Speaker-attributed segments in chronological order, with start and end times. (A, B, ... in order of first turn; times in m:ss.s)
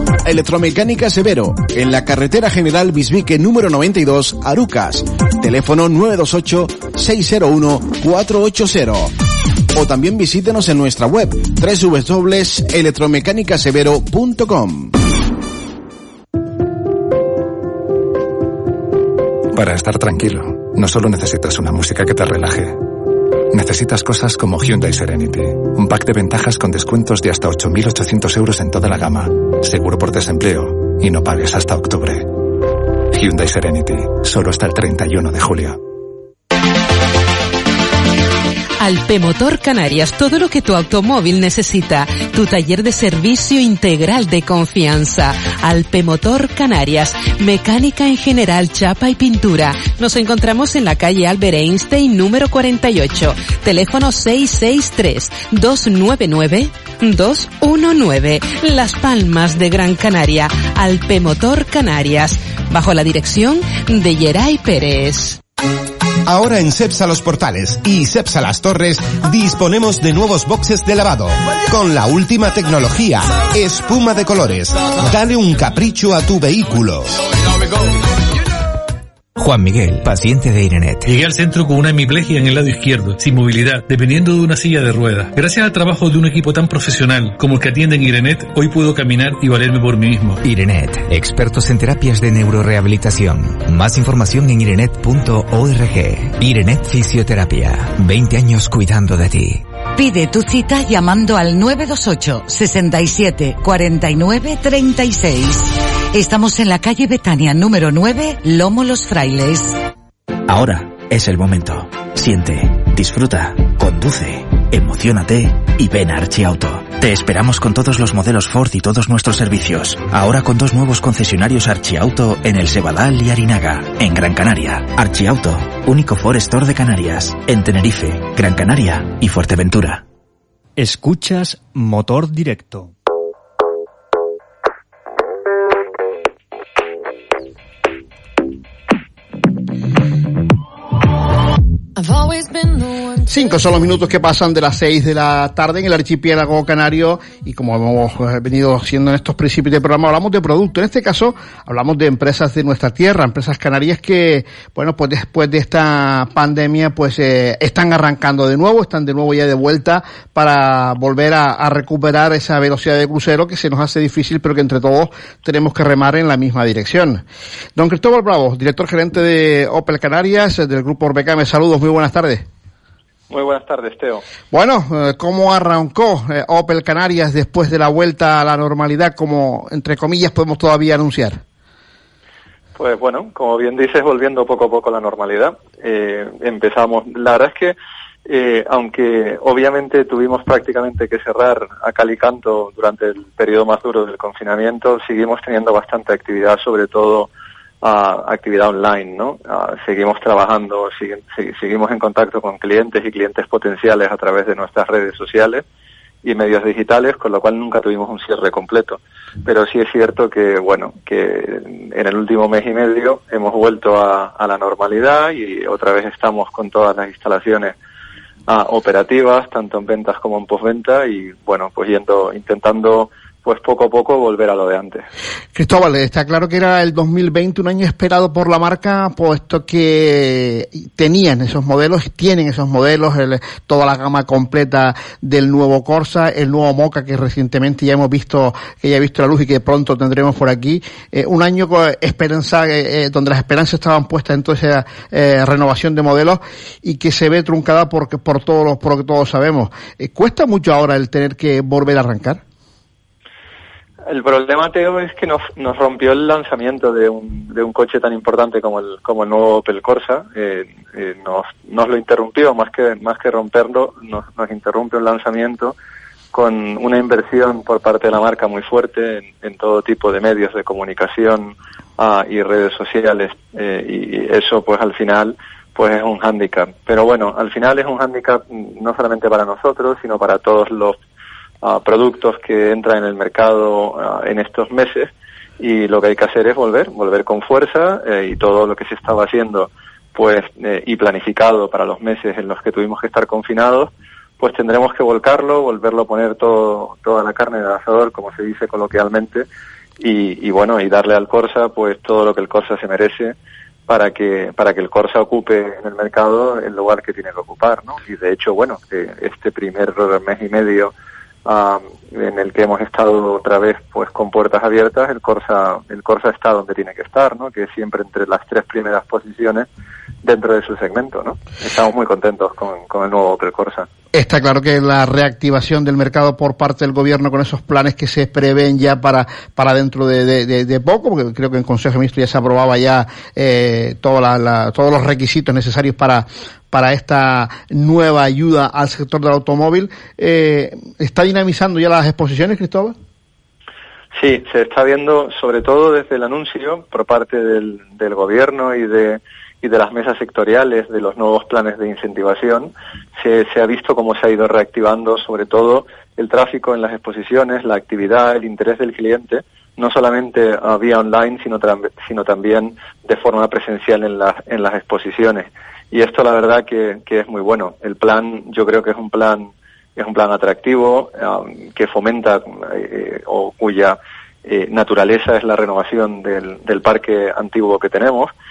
0:00.2-0:09.1 A
0:09.7-0:14.9 A
0:19.5-0:22.8 B
0:23.5-0:32.4 B
0:33.1-0:35.8 B
0:38.8-1:05.4 C
1:06.3-1:17.1 D
1:19.4-1:21.0 E
1:21.0-1:30.4 F
1:30.4-1:39.6 E
1:40.0-1:49.7 G
1:50.5-2:10.0 H
2:10.8-2:12.9 I
2:23.2-2:47.2 J
2:47.8-2:52.4 J
2:53.3-2:54.2 K
2:54.5-3:01.4 J
3:02.8-3:07.7 K
3:08.3-3:17.3 K
3:17.8-3:25.6 K
3:26.2-3:37.7 K
3:38.5-3:45.0 K
3:45.5-4:12.4 J
4:14.1-4:25.7 K
4:26.3-4:41.0 K
4:41.6-4:45.1 K
4:45.6-4:59.4 K
5:00.0-5:03.3 K
5:03.9-5:10.9 K
5:11.4-5:19.6 K
5:20.2-5:23.8 K
5:24.1-5:42.9 J
5:44.1-6:14.0 K
6:14.5-6:18.3 K